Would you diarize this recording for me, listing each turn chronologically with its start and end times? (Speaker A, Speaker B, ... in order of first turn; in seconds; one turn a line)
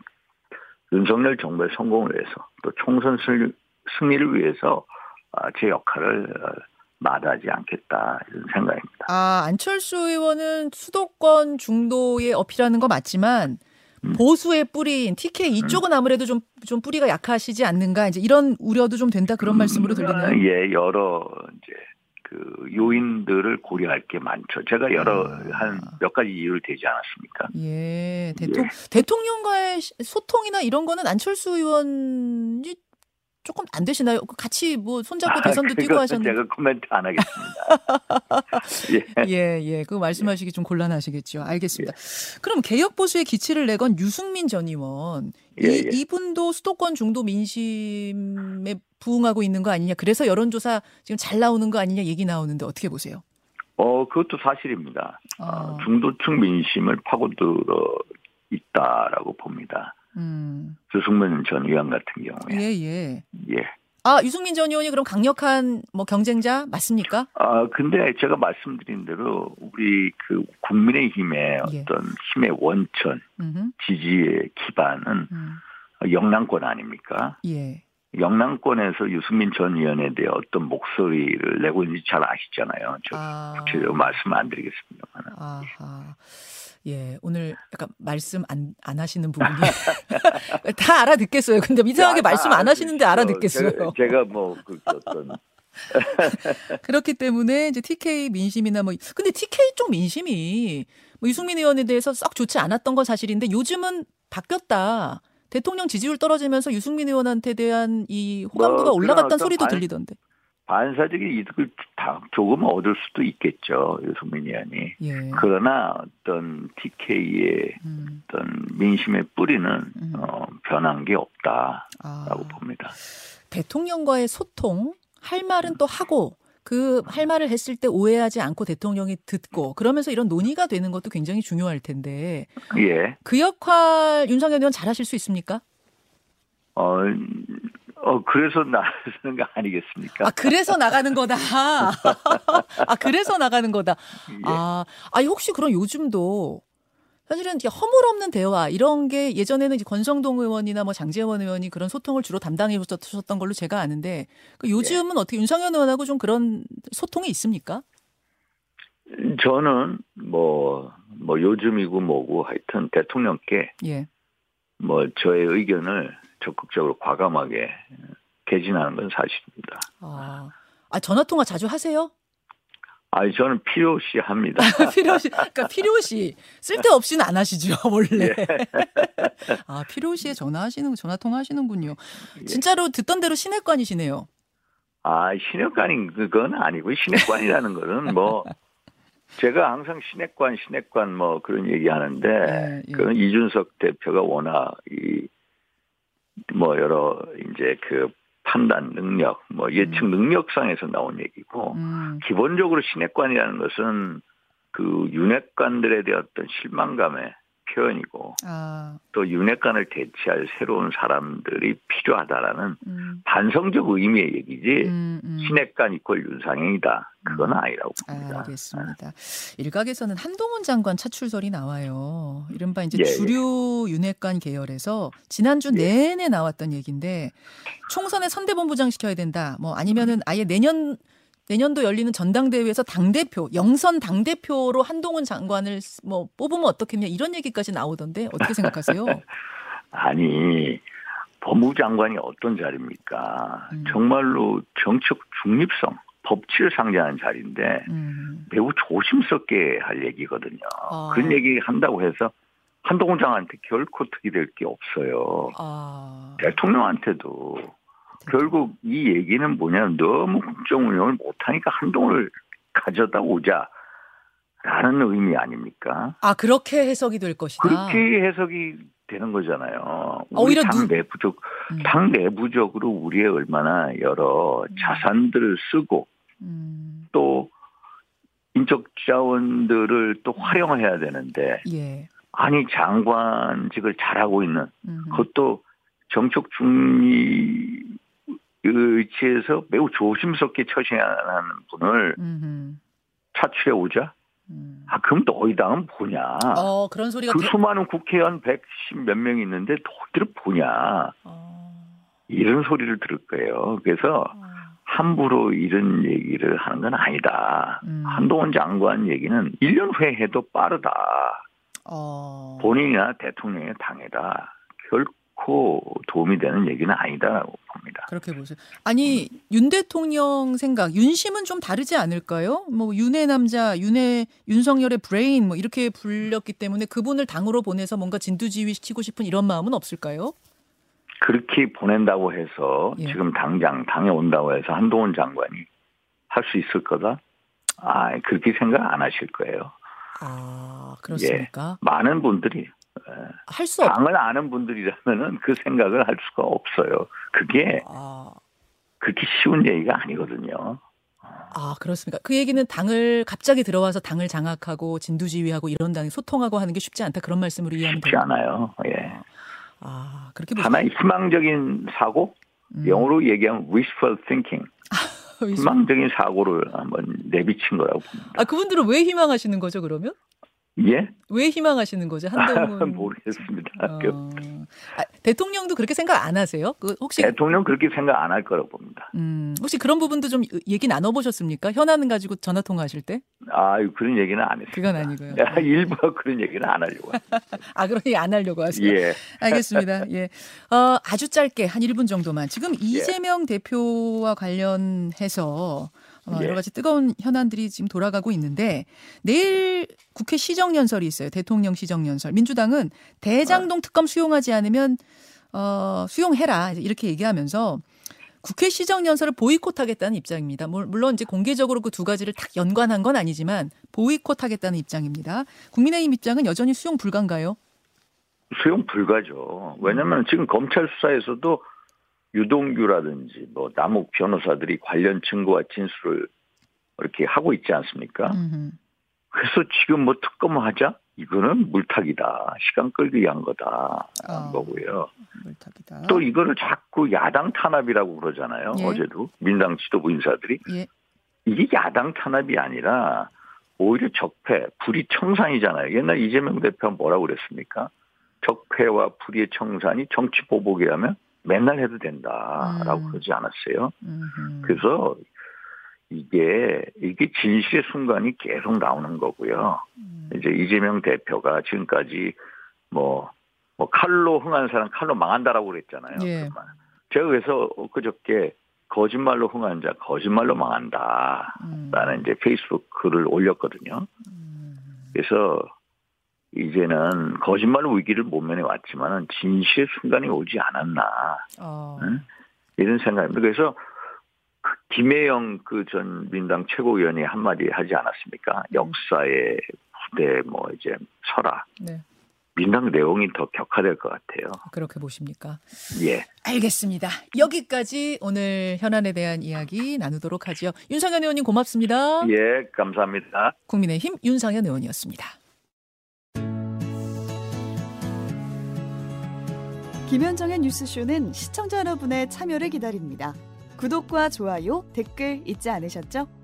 Speaker A: 0.9-9.1
Speaker B: 9.1-20.4
Speaker A: 19.4-27.5
Speaker B: 25.0-26.0
Speaker B: 27.5-32.8
Speaker A: 28.4-28.7
Speaker B: 33.4-36.4
Speaker A: 35.3-37.7
Speaker B: 37.3-53.2
Speaker A: 38.8-39.3
Speaker A: 45.6-46.0
Speaker A: 53.8-59.9
Speaker B: 55.4-55.9
Speaker B: 60.1-60.8
Speaker A: 60.9-62.6
Speaker B: 62.5-63.2
Speaker A: 63.3-63.7
Speaker B: 64.0-67.3
Speaker A: 67.3-73.2
Speaker B: 71.6-71.9
Speaker B: 73.4-73.7
Speaker A: 73.8-75.3
Speaker B: 75.3-75.6
Speaker A: 76.0-77.4
Speaker B: 77.4-77.8
Speaker A: 78.1-85.3
Speaker B: 83.1-84.2
Speaker B: 85.3-94.2
Speaker A: 92.0-95.4
Speaker A: 95.9-96.8
Speaker B: 96.1-110.2
Speaker A: 108.5-109.9
Speaker A: 110.7-123.0
Speaker B: 115.0-115.5
Speaker B: 117.8-118.2
Speaker B: 120.0-120.3
Speaker B: 122.0-122.6
Speaker B: 123.5-132.6
Speaker A: 132.7-133.2
Speaker B: 133.2-135.6
Speaker A: 136.8-140.7
Speaker B: 140.2-146.6
Speaker A: 144.3-144.6
Speaker B: 147.3-157.8
Speaker A: 159.1-163.7
Speaker B: 163.8-164.1
Speaker A: 164.8-167.9
Speaker A: 168.5-169.9
Speaker B: 170.0-172.1
Speaker A: 173.1-175.3
Speaker B: 174.6-184.3
Speaker A: 178.2-179.6
Speaker A: 182.4-182.6
Speaker A: 185.0-188.5
Speaker A: 189.4-195.3
Speaker B: 192.4-193.1
Speaker A: 196.5-208.4
Speaker B: 199.8-200.1
Speaker B: 201.7-202.2
Speaker B: 208.4-209.0
Speaker A: 209.1-218.9
Speaker B: 212.8-213.2
Speaker B: 214.8-215.6
Speaker B: 217.2-239.3
Speaker A: 222.9-223.4
Speaker A: 239.9-240.8
Speaker A: 241.4-247.9
Speaker B: 243.7-244.0
Speaker B: 247.9-248.5
Speaker A: 248.5-252.3
Speaker B: 250.9-251.4
Speaker A: 252.8-255.6
Speaker B: 255.5-256.6
Speaker A: 256.4-257.7
Speaker B: 258.2-258.5
Speaker A: 258.3-263.7
Speaker A: 264.6-266.2
Speaker B: 266.2-268.0
Speaker A: 267.6-276.1
Speaker B: 270.3-270.9
Speaker B: 274.7-275.1
Speaker B: 276.4-277.1
Speaker A: 277.1-277.5
Speaker A: 278.5-281.6
Speaker B: 281.6-282.1
Speaker A: 282.3-288.0
Speaker B: 284.9-285.3
Speaker A: 288.6-292.2
Speaker B: 292.2-292.8
Speaker A: 293.3-294.1
Speaker B: 294.5-294.9
Speaker A: 294.9-296.7
Speaker B: 296.5-297.5
Speaker A: 297.3-301.1
Speaker B: 301.3-301.9
Speaker A: 302.3-311.4
Speaker B: 304.4-304.6
Speaker B: 307.8-308.3
Speaker B: 311.9-312.8
Speaker A: 312.6-318.1
Speaker B: 318.1-330.4
Speaker A: 331.2-335.7
Speaker A: 336.3-337.2
Speaker A: 337.8-339.7
Speaker B: 340.2-341.8
Speaker A: 341.1-347.9
Speaker B: 343.5-344.0
Speaker B: 347.8-348.4
Speaker A: 349.0-350.8
Speaker B: 351.5-358.2
Speaker A: 357.8-359.2
Speaker B: 359.8-360.8
Speaker A: 360.6-364.7
Speaker B: 362.7-363.2
Speaker B: 364.9-365.8
Speaker A: 365.6-368.4
Speaker B: 368.3-370.2
Speaker A: 370.8-371.1
Speaker B: 371.3-377.4
Speaker A: 372.4-374.2
Speaker A: 377.2-379.1
Speaker B: 379.1-383.2
Speaker A: 383.5-387.4
Speaker B: 384.7-385.7
Speaker B: 387.2-405.0
Speaker A: 388.7-389.9
Speaker A: 392.9-393.2
Speaker A: 396.3-396.6
Speaker B: 405.5-407.9
Speaker B: 408.4-417.6
Speaker A: 418.5-421.7
Speaker A: 422.3-426.3
Speaker A: 427.0-428.4
Speaker B: 428.3-428.8
Speaker A: 429.3-435.1
Speaker B: 434.2-436.2
Speaker A: 436.1-440.6
Speaker B: 438.7-439.0
Speaker A: 441.5-447.9
Speaker A: 448.4-453.9
Speaker B: 452.6-453.2
Speaker B: 454.0-454.9
Speaker A: 454.6-455.2
Speaker A: 456.1-462.4
Speaker B: 460.0-460.4
Speaker A: 462.9-474.1
Speaker B: 466.2-466.6
Speaker B: 471.6-472.2
Speaker B: 474.3-475.1
Speaker A: 475.1-475.7
Speaker A: 476.5-481.5
Speaker B: 481.6-482.2
Speaker A: 482.0-482.2
Speaker A: 482.8-483.8
Speaker A: 484.6-491.7
Speaker A: 492.6-494.6
Speaker B: 494.7-495.7
Speaker A: 495.9-496.3
Speaker B: 496.4-502.3
Speaker A: 502.2-503.6
Speaker B: 503.7-505.4
Speaker C: 510.1-516.3